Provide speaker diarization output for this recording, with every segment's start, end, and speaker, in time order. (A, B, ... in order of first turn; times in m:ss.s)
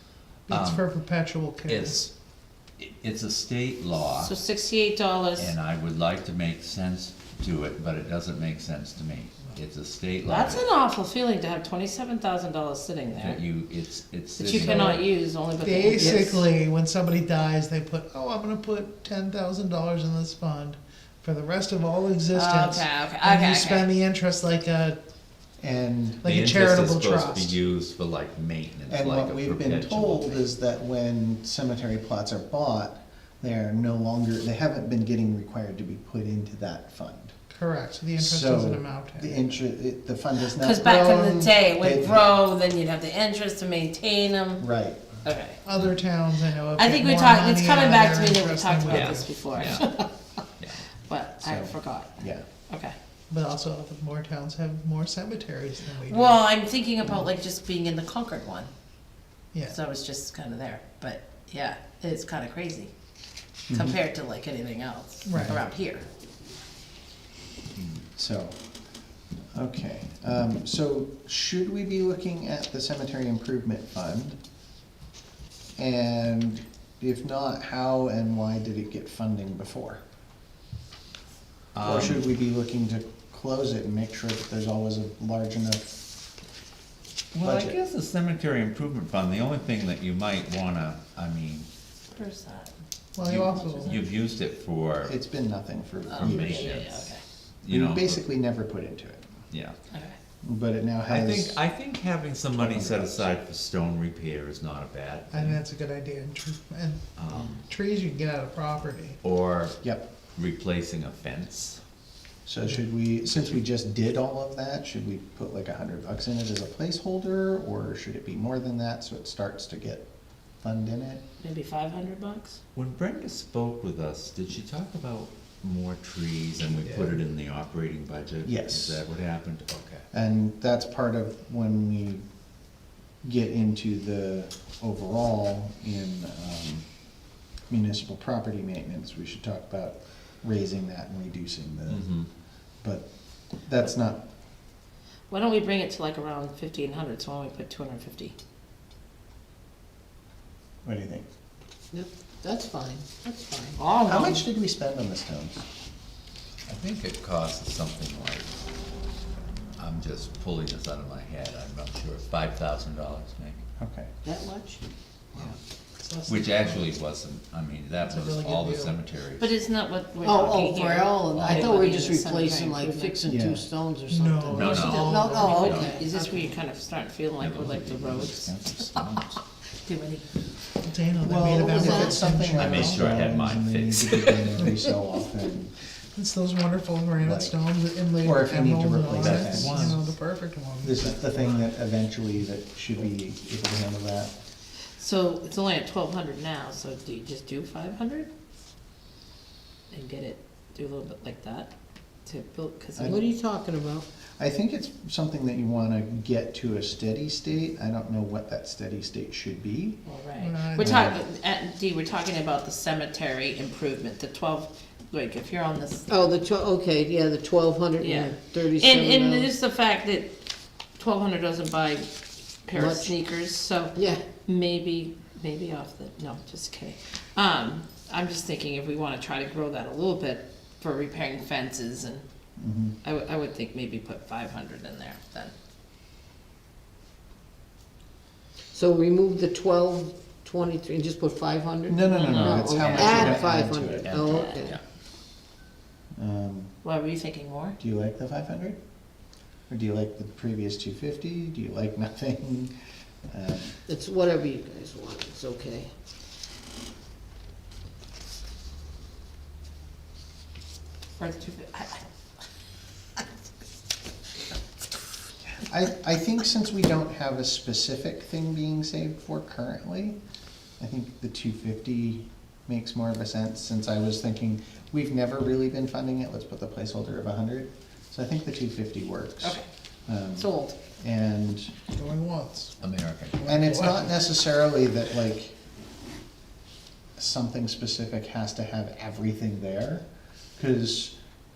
0:00.5-0:02.1 A
0:00.5-0:00.9 B
0:01.7-0:02.1 B
0:02.8-0:04.3 B
0:04.2-0:05.6 C
0:05.4-0:10.7 B
0:10.2-0:13.4 C
0:13.2-0:15.1 B
0:14.4-0:16.4 C
0:15.6-0:25.0 A
0:22.3-0:23.9 C
0:25.6-0:26.2 D
0:26.2-0:27.6 A
0:26.2-0:30.4 B
0:28.9-0:37.3 D
0:37.5-0:39.4 A
0:38.2-0:42.3 D
0:40.5-0:44.6 C
0:44.6-0:45.2 D
0:45.2-0:45.6 C
0:45.6-0:49.3 A
0:46.8-0:50.1 C
0:48.9-0:50.0 B
0:51.1-0:52.2 C
0:51.4-0:52.4 D
0:52.7-0:53.0 C
0:53.3-0:56.4 A
0:56.1-0:58.7 C
0:59.7-1:02.9 C
1:03.7-1:04.0 D
1:03.7-1:06.1 C
1:05.3-1:05.6 A
1:07.8-1:08.0 B
1:08.2-1:08.6 D
1:09.5-1:14.4 D
1:15.8-1:20.0 D
1:21.7-1:22.2 B
1:21.8-1:25.9 D
1:27.3-1:31.7 B
1:27.4-1:27.8 D
1:32.1-1:32.8 C
1:33.2-1:34.0 A
1:33.2-1:35.1 B
1:33.6-1:34.0 C
1:35.0-1:36.8 D
1:36.1-1:37.2 C
1:36.1-1:38.2 B
1:37.7-1:39.3 D
1:39.5-1:39.8 B
1:39.9-1:40.2 C
1:40.4-1:41.6 D
1:41.0-1:45.6 B
1:42.6-1:43.3 D
1:45.3-1:49.2 A
1:47.2-1:47.6 B
1:49.2-1:49.8 B
1:50.4-1:51.8 B
1:52.5-2:00.0 D
1:53.3-1:53.6 B
2:00.6-2:01.2 D
2:01.4-2:02.6 C
2:02.8-2:10.0 B
2:08.4-2:09.0 D
2:10.1-2:12.2 D
2:13.2-2:16.8 D
2:17.7-2:22.1 D
2:21.9-2:22.3 B
2:23.6-2:24.2 D
2:25.3-2:28.4 C
2:30.8-2:31.3 D
2:31.9-2:33.8 E
2:33.8-2:34.5 C
2:34.1-2:35.6 D
2:36.7-2:38.5 B
2:39.8-2:43.7 B
2:43.8-2:44.1 D
2:44.2-2:44.8 E
2:46.0-2:46.9 A
2:46.3-2:49.5 B
2:48.1-2:49.0 A
2:49.4-2:53.4 C
2:50.2-2:56.6 E
2:51.3-2:52.0 B
2:53.3-2:53.6 D
2:54.1-2:55.6 A
2:54.5-2:56.0 B
2:54.6-2:58.5 C
2:57.4-2:59.4 B
2:59.8-3:00.2 C
3:00.8-3:03.1 A
3:01.2-3:05.7 D
3:01.4-3:02.2 E
3:02.6-3:04.7 B
3:06.2-3:11.0 A
3:07.2-3:07.6 D
3:08.2-3:10.0 D
3:09.2-3:10.0 B
3:10.8-3:14.3 D
3:15.0-3:18.3 C
3:19.9-3:21.7 C
3:22.2-3:23.2 C
3:23.0-3:23.3 D
3:23.0-3:24.1 E
3:24.4-3:30.0 D
3:30.0-3:36.1 C
3:30.4-3:31.1 A
3:30.8-3:31.2 D
3:36.1-3:39.5 E
3:38.0-3:40.4 C
3:41.0-3:42.1 C
3:42.6-3:52.2 C
3:42.7-3:43.1 E
3:44.0-3:44.2 E
3:52.6-3:53.0 D
3:53.0-3:55.5 C
3:58.7-4:04.8 E
4:01.9-4:04.3 D
4:02.1-4:03.4 C
4:02.8-4:04.8 B
4:04.3-4:04.7 C
4:06.2-4:06.7 D
4:06.8-4:07.8 C
4:07.8-4:08.8 D
4:09.7-4:12.7 D
4:13.3-4:13.7 D
4:13.9-4:15.9 E
4:21.2-4:22.0 C
4:25.6-4:30.2 D
4:30.8-4:41.7 D
4:39.4-4:39.7 C
4:40.4-4:40.8 C
4:41.9-4:42.8 A
4:42.8-4:43.5 B
4:43.4-4:44.2 A
4:43.5-4:45.6 D
4:47.2-4:50.0 D
4:50.6-4:51.2 D